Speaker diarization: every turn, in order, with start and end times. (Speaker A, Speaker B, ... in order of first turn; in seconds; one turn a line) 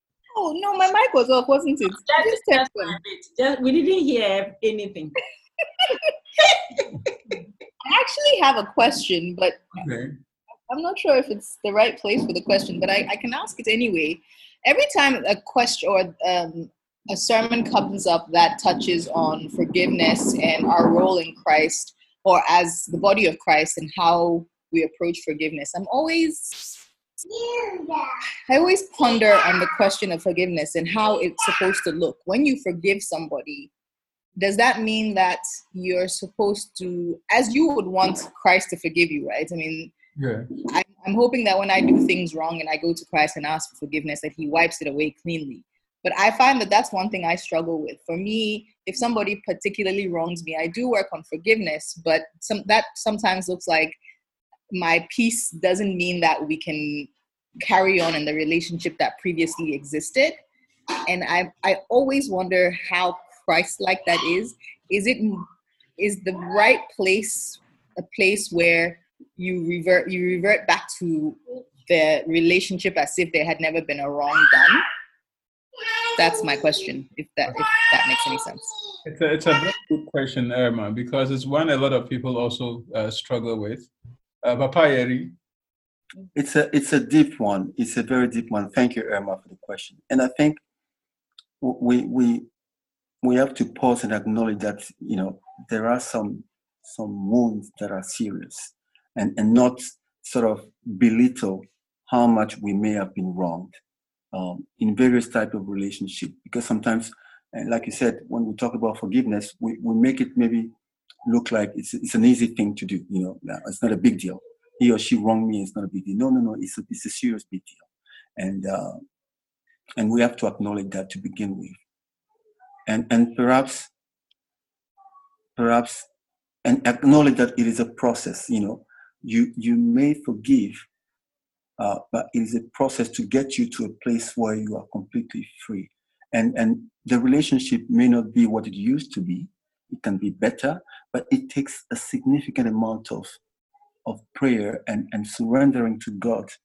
Speaker A: 0.3-3.0
Speaker B: 2.0-5.1
Speaker A: 7.8-9.6
Speaker C: 9.8-10.1
Speaker A: 10.7-26.7
Speaker A: 28.5-33.7
Speaker A: 34.4-39.9
Speaker C: 40.2-40.5
Speaker A: 40.6-54.0
Speaker A: 54.7-57.1
Speaker A: 57.6-60.4
Speaker A: 61.1-65.5
Speaker A: 66.0-74.8
Speaker A: 76.2-78.7
Speaker C: 79.0-83.9
Speaker C: 84.4-85.3
Speaker D: 86.3-90.6
Speaker D: 91.6-92.5
Speaker D: 93.2-103.7
Speaker D: 104.3-110.7
Speaker D: 111.2-119.0
Speaker D: 120.0-121.8
Speaker D: 122.9-123.9
Speaker D: 125.6-126.1
Speaker D: 126.6-130.9
Speaker D: 131.8-143.4
Speaker D: 144.1-146.5